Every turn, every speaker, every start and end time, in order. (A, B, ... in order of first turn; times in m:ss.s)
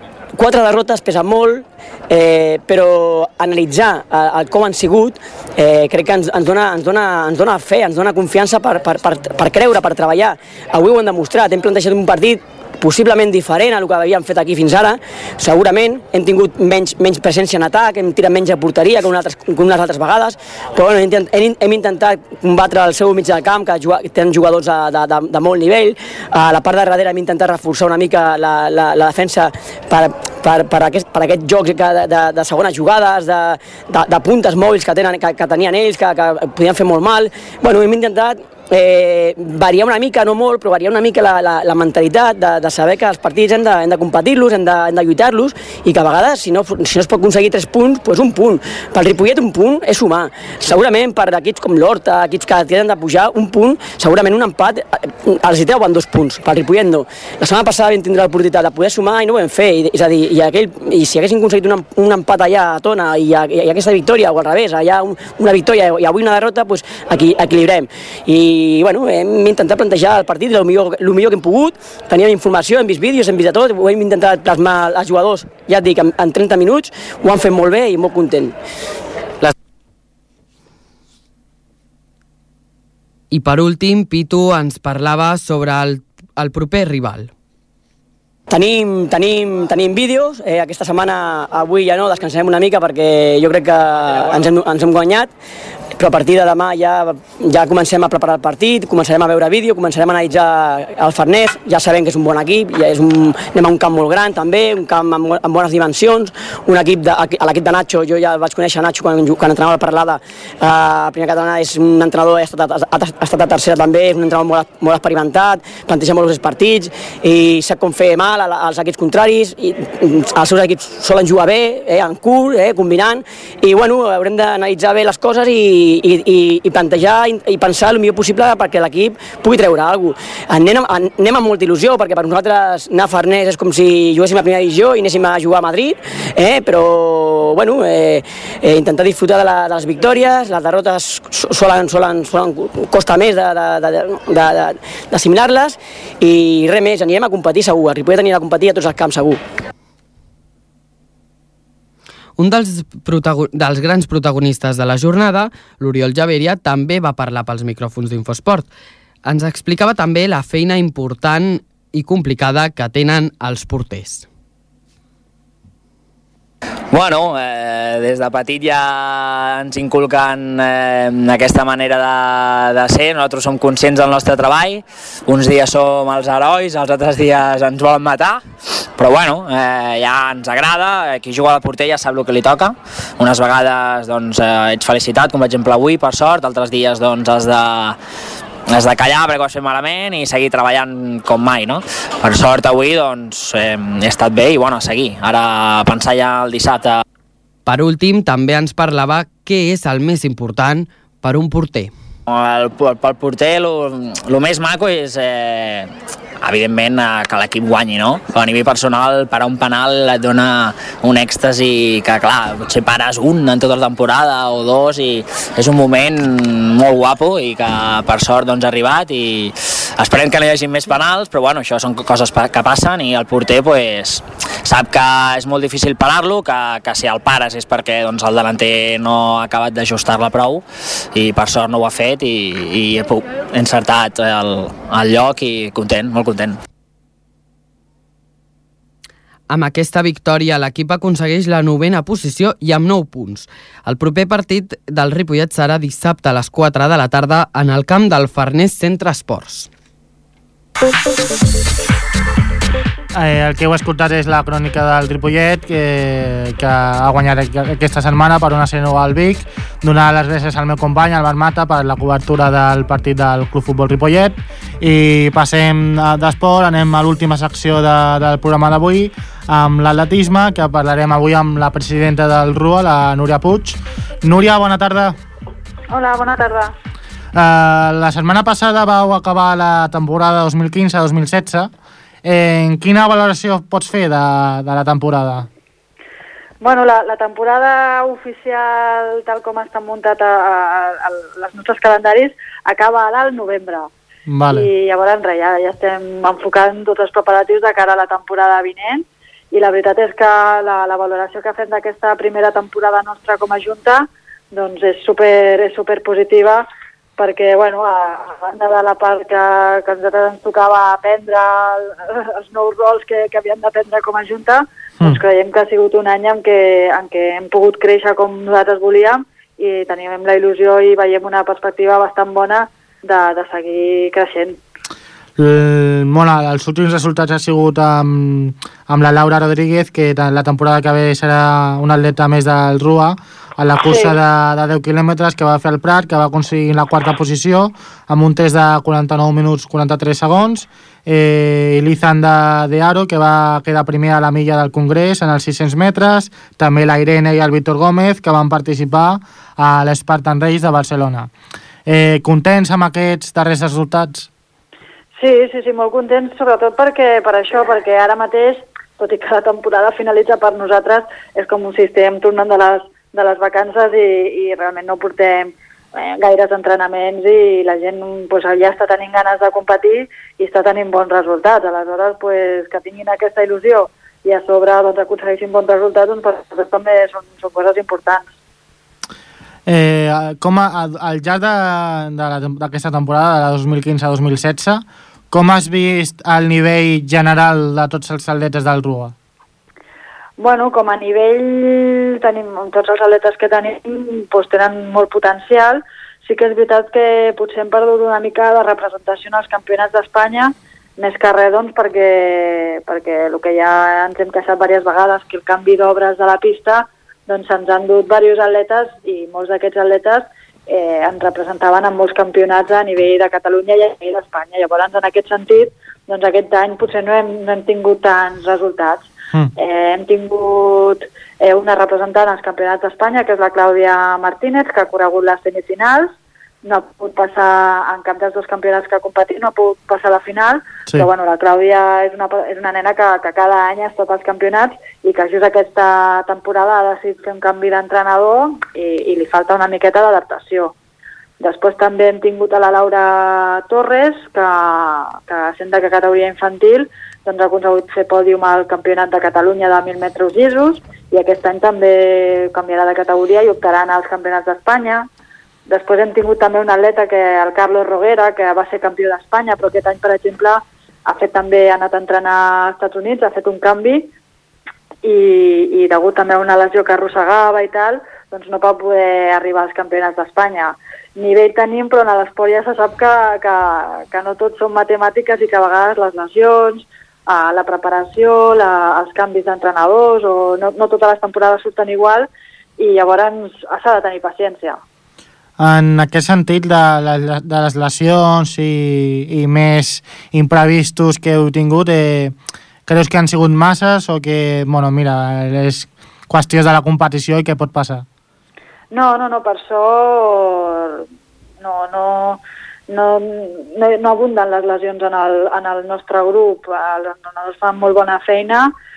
0:00.4-1:18.5 A
1:23.3-1:27.3 B
1:28.5-1:35.3 A
1:36.0-2:29.4 A
2:32.4-2:38.7 B
2:39.2-2:44.3 B
2:46.9-2:58.4 C
2:59.0-3:08.0 C
3:08.7-3:17.0 C
3:17.7-3:21.9 B
3:22.3-3:56.6 C
3:59.5-4:09.7 B
4:13.2-4:35.2 D
4:35.9-4:36.7 E
4:37.3-4:41.7 D
4:42.2-4:45.5 D
4:46.6-4:53.9 E
4:54.3-4:54.7 D
4:54.5-5:06.6 E
5:07.2-5:24.6 E
5:25.4-5:51.3 D
5:33.9-5:34.2 E
5:51.9-5:54.3 D
5:55.2-6:18.3 E
6:19.7-6:29.2 D
6:30.4-7:20.7 E
7:21.4-7:35.1 E
7:35.7-7:44.1 E
7:45.0-8:04.8 E
8:05.6-8:12.4 D
8:12.9-8:18.0 D
8:18.9-8:21.1 E
8:21.6-8:28.7 E